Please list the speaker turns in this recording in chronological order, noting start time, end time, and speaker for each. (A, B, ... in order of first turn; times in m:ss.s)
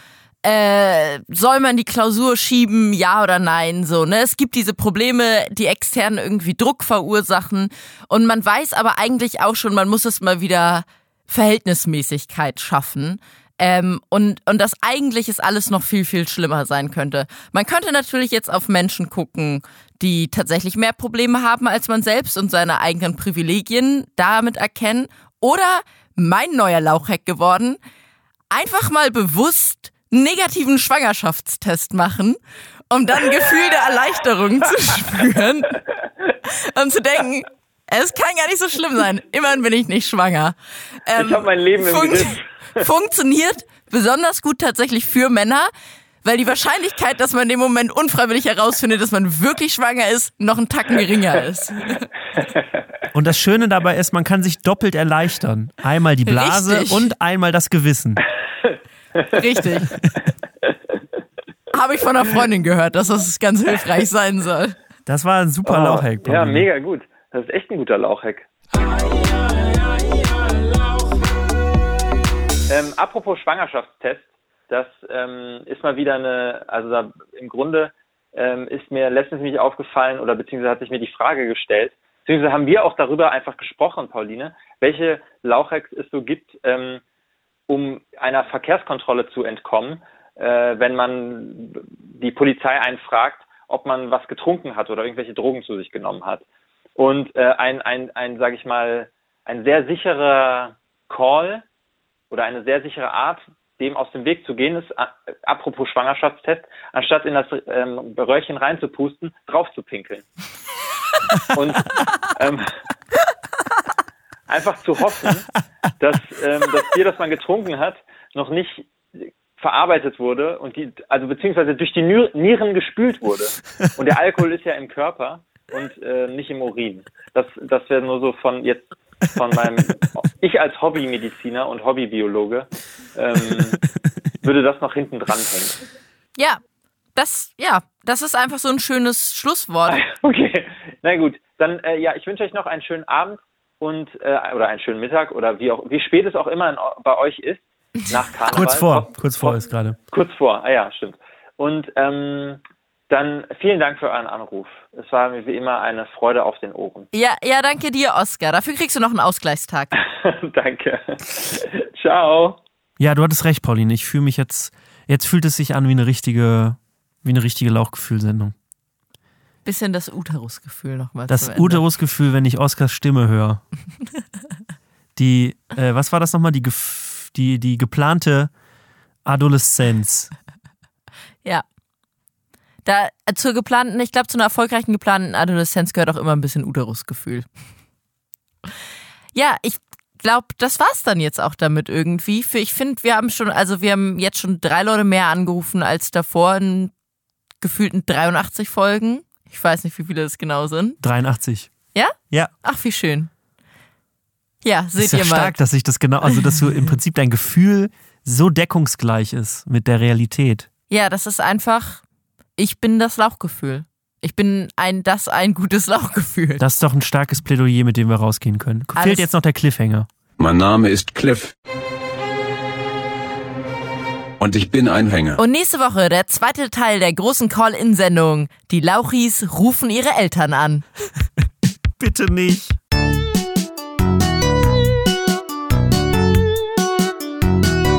0:00.4-0:27.8 A
0:28.5-0:32.4 A
0:32.9-0:35.8 A
0:36.5-0:45.7 A
0:41.2-0:42.8 B
0:46.2-0:52.1 A
0:53.1-0:58.2 C
0:56.3-0:57.1 A
0:59.3-0:59.9 A
1:01.7-1:04.8 A
1:05.1-1:06.7 C
1:05.6-1:09.3 B
1:12.7-1:27.0 B
1:27.7-1:36.4 B
1:37.0-1:41.6 B
1:42.3-1:50.3 B
1:51.4-1:52.7 B
1:54.5-2:13.8 B
2:14.4-2:15.8 B
2:17.2-2:20.0 A
2:19.9-2:32.6 B
2:28.5-2:30.0 C
2:33.1-2:37.1 B
2:37.1-2:40.0 A
2:40.0-2:42.6 B
2:43.0-2:48.5 C
2:49.6-2:51.9 A
2:51.3-2:53.6 C
2:55.2-2:58.5 C
2:59.2-3:00.3 C
3:02.8-3:07.5 A
3:09.3-3:16.9 A
3:17.6-3:21.0 A
3:21.0-3:21.7 C
3:21.9-3:23.3 A
3:24.6-3:25.6 A
3:25.0-3:30.7 C
3:30.9-3:32.0 A
3:32.6-3:36.6 A
3:36.6-3:40.1 C
3:39.0-3:39.3 A
3:40.4-3:41.5 D
3:44.4-3:45.4 D
3:45.4-3:50.8 A
3:52.0-3:52.8 C